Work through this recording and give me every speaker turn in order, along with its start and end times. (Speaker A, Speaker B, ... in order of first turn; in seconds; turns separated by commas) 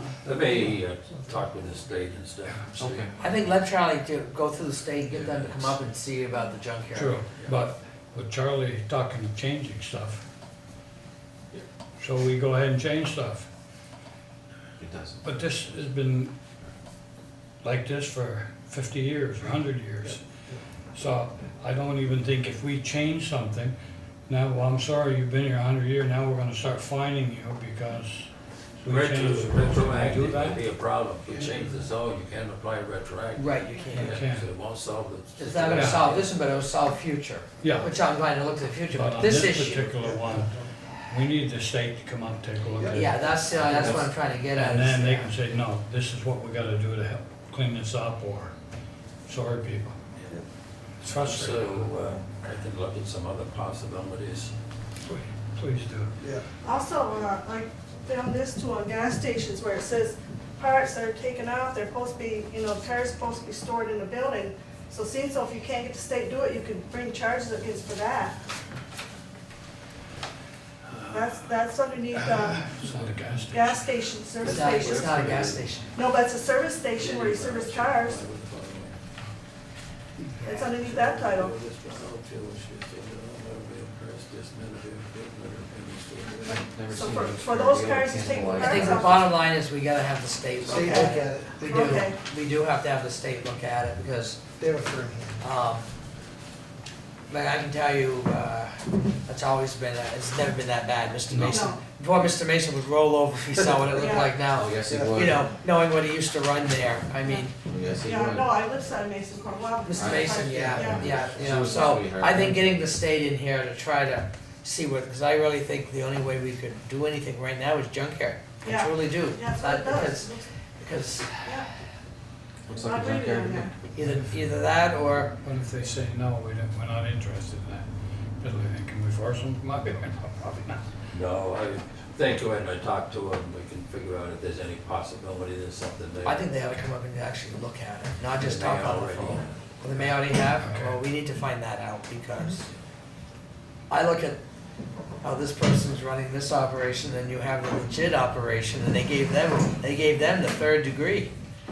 Speaker A: 0.2-3.4, Speaker B: 2.8-3.1, Speaker C: 3.2-7.2, Speaker A: 5.1-5.8, Speaker D: 6.9-10.3, Speaker D: 12.0-13.5, Speaker B: 14.8-15.3, Speaker D: 15.2-16.3, Speaker D: 17.6-20.2, Speaker D: 20.9-23.8, Speaker D: 24.3-30.6, Speaker A: 28.9-36.3, Speaker C: 33.4-34.2, Speaker D: 33.9-34.5, Speaker C: 35.4-39.9, Speaker D: 35.7-36.1, Speaker D: 37.6-37.9, Speaker D: 38.9-48.5, Speaker E: 40.0-40.7, Speaker E: 42.8-44.1, Speaker C: 42.9-45.3, Speaker D: 49.3-50.0, Speaker D: 51.0-51.9, Speaker A: 51.1-54.5, Speaker D: 55.1-56.1, Speaker F: 56.6-68.4, Speaker A: 70.9-71.5, Speaker F: 71.1-72.7, Speaker D: 72.2-74.0, Speaker F: 73.5-75.2, Speaker A: 74.4-75.7, Speaker C: 74.4-75.9, Speaker F: 75.9-78.2, Speaker A: 76.9-79.0, Speaker F: 80.4-81.5, Speaker A: 80.6-86.6, Speaker F: 86.4-89.3, Speaker B: 86.4-89.2, Speaker C: 88.5-94.4, Speaker E: 90.7-91.5, Speaker F: 90.7-92.2, Speaker E: 94.6-95.4, Speaker C: 95.4-95.9, Speaker C: 97.3-107.5, Speaker B: 101.3-101.6, Speaker F: 101.4-101.8, Speaker F: 103.9-104.3, Speaker B: 104.5-105.5, Speaker E: 104.9-105.2, Speaker F: 107.2-107.5, Speaker B: 107.7-108.6, Speaker F: 108.0-111.7, Speaker C: 109.9-121.5, Speaker B: 110.0-112.8, Speaker F: 118.6-120.5, Speaker F: 121.4-121.7, Speaker B: 122.7-123.7, Speaker F: 122.7-123.8, Speaker C: 123.9-125.3, Speaker D: 124.0-124.3, Speaker D: 125.4-130.8, Speaker A: 131.1-136.5, Speaker C: 136.2-142.7, Speaker A: 138.4-140.1, Speaker D: 140.6-140.9, Speaker C: 143.9-144.4, Speaker C: 145.2-151.3